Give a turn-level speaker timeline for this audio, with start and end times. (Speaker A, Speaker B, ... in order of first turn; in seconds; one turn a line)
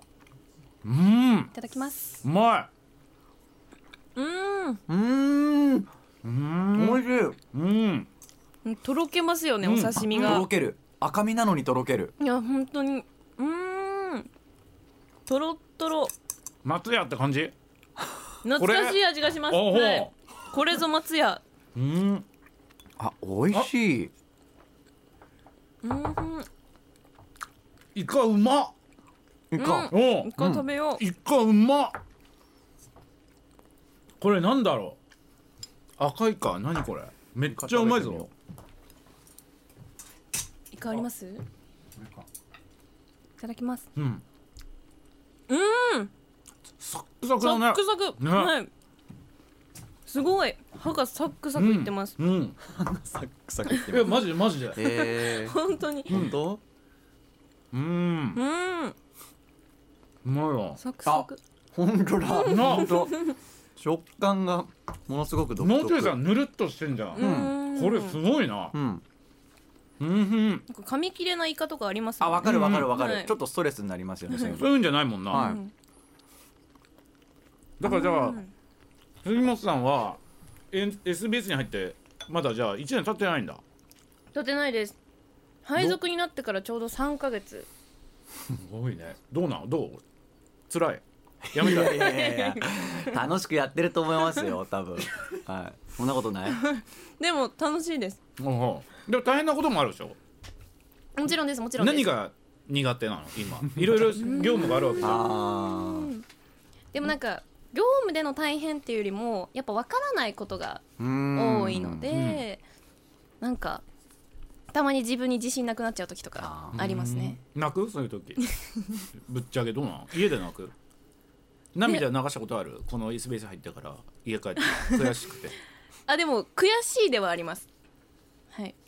Speaker A: 0.8-1.5
Speaker B: 1.5-2.2
Speaker A: 2.2-2.7
Speaker B: 4.2-4.8
Speaker C: 4.9-5.9
Speaker A: 6.2-8.1
Speaker C: 6.7-7.4
Speaker B: 8.6-10.5
Speaker A: 9.6-10.4
Speaker C: 9.9-12.1
Speaker B: 12.2-14.3
Speaker B: 15.3-16.1
Speaker A: 16.6-17.5
Speaker B: 18.4-21.4
Speaker A: 18.6-20.1
Speaker A: 21.7-22.2
Speaker C: 23.0-24.1
Speaker B: 25.8-26.5
Speaker A: 27.9-28.7
Speaker C: 29.5-30.6
Speaker B: 29.6-31.0
Speaker A: 29.9-30.3
Speaker A: 31.0-31.9
Speaker A: 34.2-35.0
Speaker A: 36.0-38.3
Speaker C: 37.5-38.3
Speaker B: 40.7-41.4
Speaker B: 43.4-43.9
Speaker A: 43.9-44.2
Speaker B: 45.5-46.1
Speaker A: 46.8-48.5
Speaker B: 47.4-48.7
Speaker B: 50.1-52.1
Speaker A: 51.5-52.5
Speaker C: 52.7-54.2
Speaker B: 53.7-54.0
Speaker A: 53.9-54.8
Speaker C: 54.7-56.6
Speaker B: 54.8-56.2
Speaker A: 56.1-56.4
Speaker A: 57.7-58.4
Speaker B: 58.3-58.9
Speaker A: 60.2-60.8
Speaker B: 60.8-61.4
Speaker C: 61.0-63.2
Speaker A: 62.4-63.1
Speaker B: 62.4-63.3
Speaker C: 63.8-66.2
Speaker A: 65.6-68.7
Speaker B: 67.1-68.2
Speaker C: 67.2-67.6
Speaker C: 68.7-69.0
Speaker A: 70.0-70.6
Speaker B: 70.7-73.3
Speaker C: 72.2-74.7
Speaker A: 72.4-72.9
Speaker B: 74.3-74.6
Speaker A: 74.6-75.5
Speaker B: 75.3-75.7
Speaker C: 75.3-75.6
Speaker A: 77.8-78.4
Speaker B: 77.8-78.5
Speaker A: 79.2-80.2
Speaker A: 80.7-83.6
Speaker B: 84.3-85.0
Speaker B: 85.6-87.7
Speaker A: 88.5-90.0
Speaker A: 90.7-92.1
Speaker C: 91.5-96.6
Speaker B: 91.8-93.2
Speaker B: 96.5-98.2
Speaker A: 98.4-100.2
Speaker B: 101.2-102.1
Speaker A: 101.8-105.3
Speaker B: 104.2-106.2
Speaker C: 105.0-106.1
Speaker B: 106.9-112.6
Speaker C: 111.0-112.2
Speaker A: 112.1-112.4
Speaker B: 113.4-113.8
Speaker B: 114.7-117.4
Speaker C: 116.4-116.8
Speaker A: 116.7-118.4
Speaker B: 118.4-119.0
Speaker A: 119.1-120.7
Speaker A: 121.7-125.6
Speaker B: 124.8-125.1
Speaker B: 126.1-127.7